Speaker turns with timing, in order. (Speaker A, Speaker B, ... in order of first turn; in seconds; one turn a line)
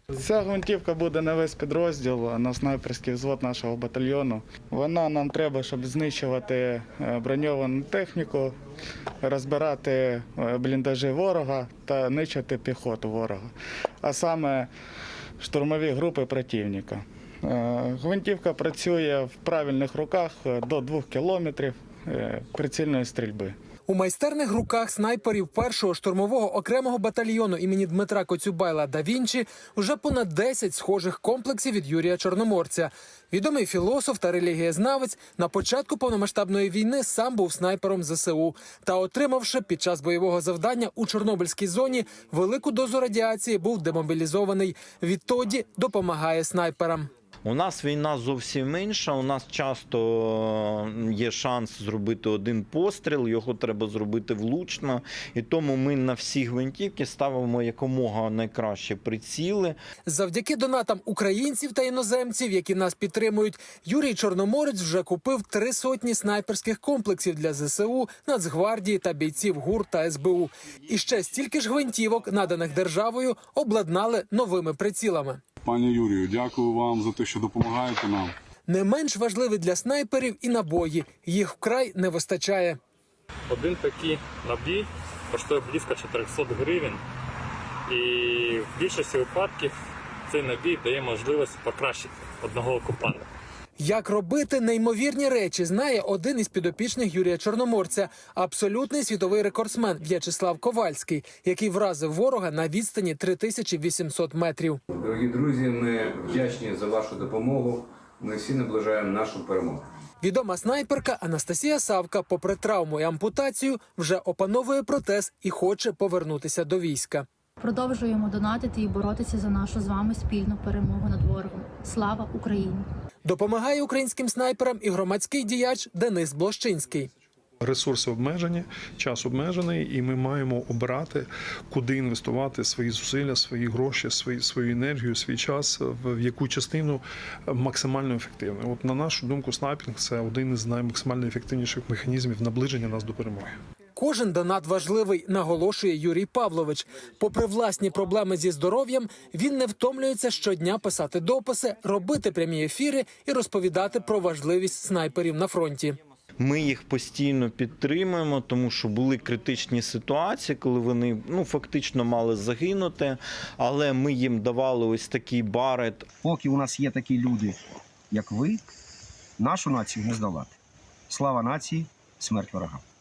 Speaker A: 0.2-8.5
Speaker A: 9.2-13.5
Speaker A: 14.0-14.7
Speaker A: 15.4-23.6
Speaker B: 23.9-47.1
Speaker C: 47.4-59.8
Speaker B: 60.0-75.4
Speaker D: 75.6-78.3
Speaker B: 78.7-82.8
Speaker E: 83.5-87.0
Speaker E: 87.9-89.7
Speaker E: 90.3-93.2
Speaker B: 93.8-104.8
Speaker F: 104.9-109.9
Speaker B: 110.2-117.3
Speaker G: 117.6-122.9
Speaker B: 123.2-127.1
Speaker H: 127.6-143.6
Speaker B: 143.9-156.0
Speaker C: 156.4-166.1
Speaker I: 166.2-168.6
Speaker I: 169.4-170.6
Speaker I: 171.1-172.8